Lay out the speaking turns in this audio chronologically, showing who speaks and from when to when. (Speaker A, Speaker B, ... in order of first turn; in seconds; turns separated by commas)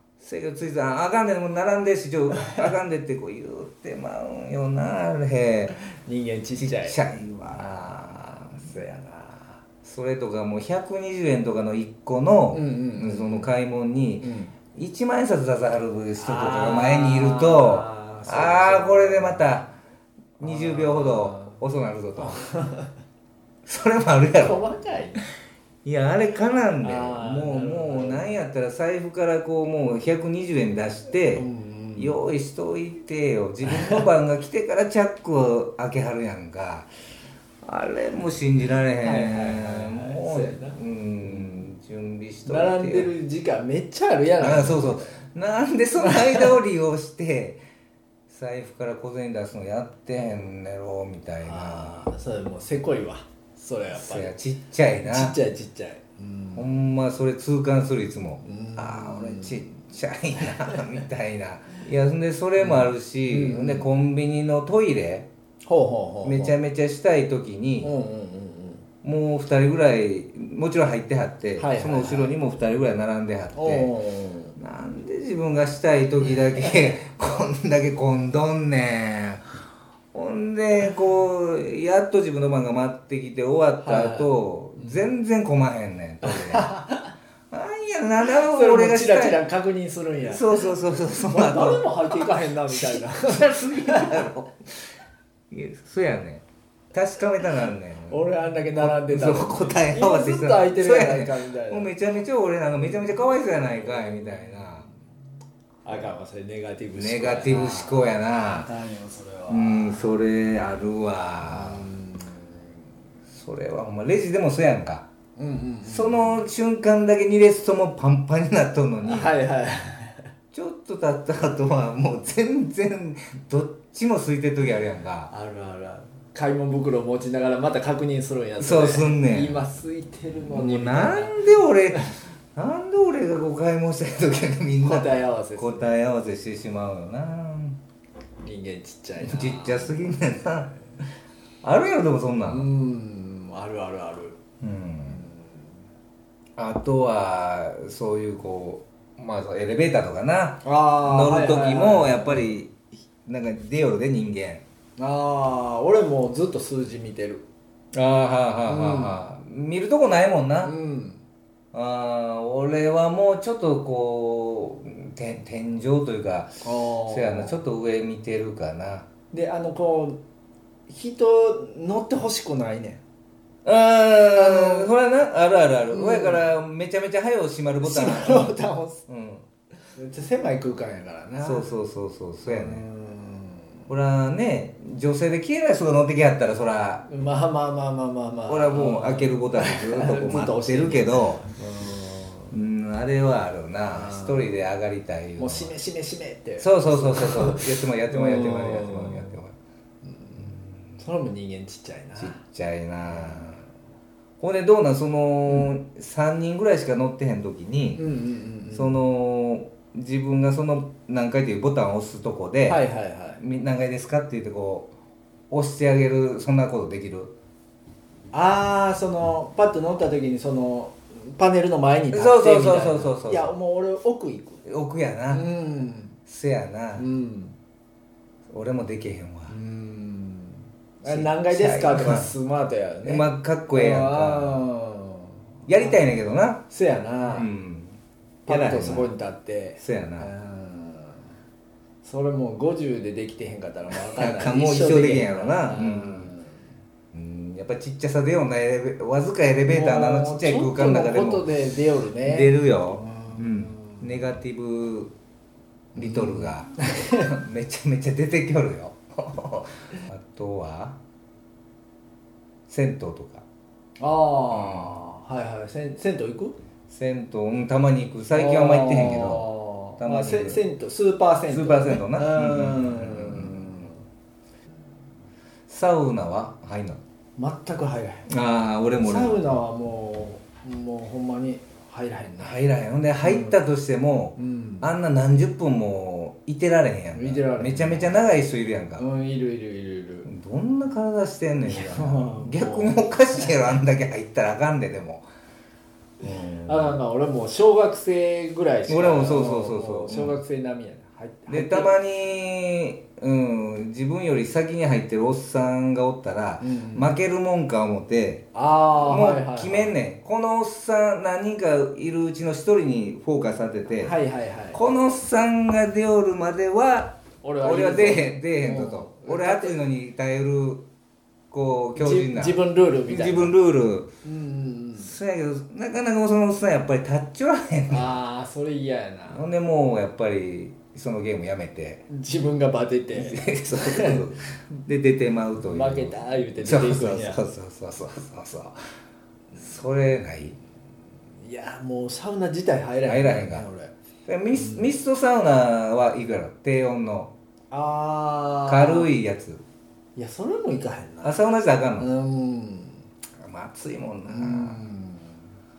Speaker A: 0.2-5.8, Speaker B: 5.9-7.0, Speaker A: 6.6-8.7, Speaker B: 7.5-9.6, Speaker A: 9.8-19.7, Speaker B: 12.5-13.5, Speaker B: 14.2-14.6, Speaker B: 16.2-19.5, Speaker A: 20.4-22.4, Speaker B: 20.4-21.6, Speaker B: 22.2-22.9, Speaker A: 23.7-24.6, Speaker B: 24.4-25.2, Speaker A: 25.8-36.9, Speaker B: 26.8-28.4, Speaker B: 31.4-32.2, Speaker B: 33.6-34.1, Speaker A: 37.6-43.1, Speaker B: 39.0-41.7, Speaker B: 42.5-45.3, Speaker A: 44.4-47.6, Speaker B: 46.0-46.6, Speaker A: 48.3-52.1, Speaker B: 51.4-54.3, Speaker A: 54.0-55.4, Speaker B: 55.0-56.7, Speaker A: 56.6-65.3, Speaker B: 58.4-59.6, Speaker B: 60.4-60.8, Speaker B: 62.6-63.9, Speaker B: 65.7-66.6, Speaker A: 66.2-67.9, Speaker B: 67.8-68.8, Speaker A: 69.0-73.9, Speaker B: 71.6-72.3, Speaker B: 73.5-74.6, Speaker A: 74.6-79.6, Speaker A: 80.1-86.7, Speaker B: 83.8-85.1, Speaker B: 86.2-87.1, Speaker A: 87.5-89.4, Speaker B: 88.3-94.3, Speaker A: 90.2-94.8, Speaker A: 95.5-98.2, Speaker B: 98.1-101.9, Speaker A: 98.8-104.9, Speaker B: 103.5-104.9, Speaker B: 105.8-110.1, Speaker A: 107.0-108.7, Speaker A: 109.5-111.9, Speaker B: 111.4-112.6, Speaker A: 113.3-115.1, Speaker B: 115.4-116.4, Speaker A: 115.8-119.3, Speaker B: 119.0-120.3, Speaker A: 120.5-125.3, Speaker B: 125.3-131.4, Speaker A: 128.6-129.6, Speaker A: 130.5-137.8, Speaker B: 134.8-135.9, Speaker B: 138.4-140.0, Speaker A: 139.2-140.8, Speaker A: 141.6-142.7, Speaker B: 142.5-144.4, Speaker A: 144.6-145.2, Speaker B: 145.1-145.6, Speaker A: 146.6-154.6, Speaker B: 150.6-152.6, Speaker B: 155.0-157.5, Speaker A: 157.9-160.7, Speaker B: 158.7-159.3, Speaker B: 160.6-161.2, Speaker A: 161.7-169.1, Speaker B: 166.6-167.6, Speaker B: 169.3-170.2, Speaker B: 170.9-173.0, Speaker A: 173.7-179.5, Speaker B: 174.3-174.9, Speaker B: 175.9-176.4, Speaker B: 177.8-179.0, Speaker B: 179.9-181.7, Speaker A: 181.4-182.8, Speaker B: 182.4-183.9, Speaker A: 183.9-187.1, Speaker B: 187.1-192.5, Speaker A: 188.5-191.4, Speaker A: 192.5-195.7, Speaker B: 193.9-194.6, Speaker B: 195.4-199.4, Speaker A: 196.6-199.5, Speaker B: 200.1-202.4, Speaker A: 202.2-203.6, Speaker B: 203.1-203.7, Speaker A: 204.4-208.0, Speaker B: 205.5-205.7, Speaker B: 208.0-209.0, Speaker A: 208.7-212.8, Speaker B: 212.7-213.4, Speaker A: 213.4-214.9, Speaker A: 215.5-217.3, Speaker B: 218.3-224.6, Speaker A: 222.1-223.6, Speaker A: 224.6-225.5, Speaker B: 225.3-226.2, Speaker A: 226.3-227.1, Speaker B: 226.9-227.6, Speaker A: 228.5-229.5, Speaker B: 229.5-236.0, Speaker A: 231.1-232.3, Speaker A: 233.0-234.6, Speaker A: 235.7-236.6, Speaker B: 236.7-237.5, Speaker A: 237.3-239.1, Speaker B: 238.5-241.2, Speaker A: 239.8-240.3, Speaker B: 242.0-246.6, Speaker A: 244.1-246.3, Speaker A: 247.1-251.5, Speaker B: 249.7-254.1, Speaker A: 252.2-255.1, Speaker B: 255.9-257.4, Speaker A: 256.0-261.0, Speaker A: 262.7-263.4, Speaker B: 264.0-266.6, Speaker A: 264.5-265.0, Speaker A: 266.9-270.6, Speaker B: 268.3-274.0, Speaker A: 271.5-273.9, Speaker A: 275.7-277.0, Speaker B: 277.4-278.3, Speaker A: 278.3-279.6, Speaker B: 279.0-282.7, Speaker A: 282.4-289.0, Speaker B: 283.2-283.6, Speaker B: 284.4-284.9, Speaker B: 287.1-288.2, Speaker B: 289.0-290.3, Speaker A: 290.3-295.2, Speaker B: 291.7-293.6, Speaker A: 296.2-297.0, Speaker B: 296.3-301.9, Speaker A: 298.9-300.4, Speaker A: 301.5-308.4, Speaker B: 306.6-307.2, Speaker B: 308.5-310.0, Speaker A: 309.0-314.1, Speaker B: 314.0-314.8, Speaker A: 314.7-320.8, Speaker B: 317.4-319.8, Speaker A: 321.5-324.1, Speaker B: 322.0-323.6, Speaker B: 324.2-325.1, Speaker A: 325.0-328.2, Speaker B: 327.9-329.4, Speaker A: 329.3-332.1, Speaker B: 332.1-334.2, Speaker A: 333.1-338.8, Speaker B: 335.6-337.4, Speaker A: 339.6-340.6, Speaker B: 341.4-343.9, Speaker A: 343.1-343.7, Speaker A: 344.3-347.3, Speaker B: 344.6-344.9, Speaker B: 347.7-349.1, Speaker A: 348.7-349.6, Speaker B: 350.2-351.4, Speaker A: 351.2-352.1, Speaker B: 352.0-353.0, Speaker A: 353.4-354.8, Speaker B: 354.2-355.3